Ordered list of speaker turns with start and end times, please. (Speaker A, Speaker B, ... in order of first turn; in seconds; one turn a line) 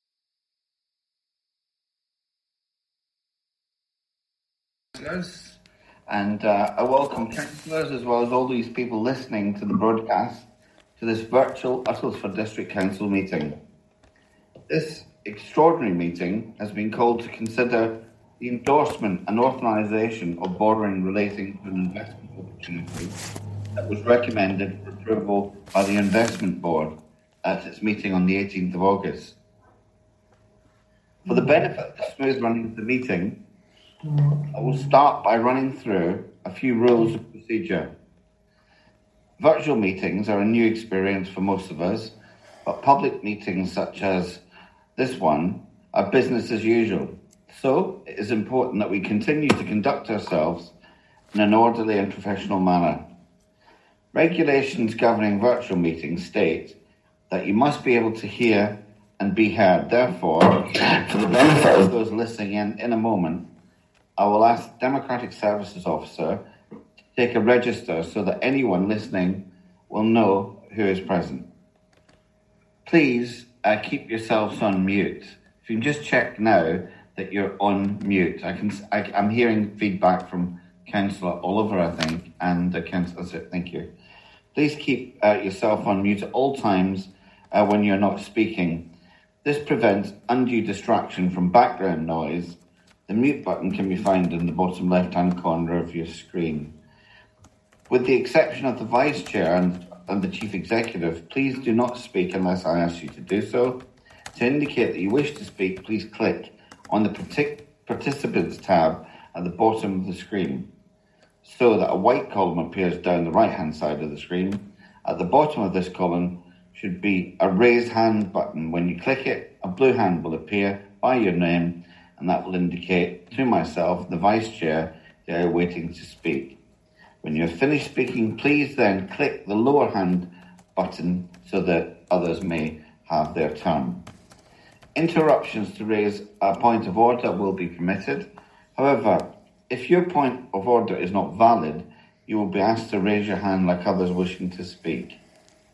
Speaker A: 4.9-5.6
Speaker A: 6.1-10.5
Speaker A: 11.0-13.6
Speaker A: 14.7-23.1
Speaker A: 23.8-26.9
Speaker A: 27.4-29.4
Speaker A: 31.2-33.4
Speaker A: 34.5-37.9
Speaker A: 39.4-44.4
Speaker A: 45.0-50.7
Speaker A: 51.3-53.0
Speaker A: 54.1-56.8
Speaker A: 57.3-63.5
Speaker A: 64.2-66.4
Speaker A: 67.1-71.5
Speaker A: 72.8-83.9
Speaker A: 84.5-88.8
Speaker A: 89.4-96.7
Speaker A: 97.9-110.7
Speaker A: 111.4-126.5
Speaker A: 127.2-134.1
Speaker A: 134.9-145.2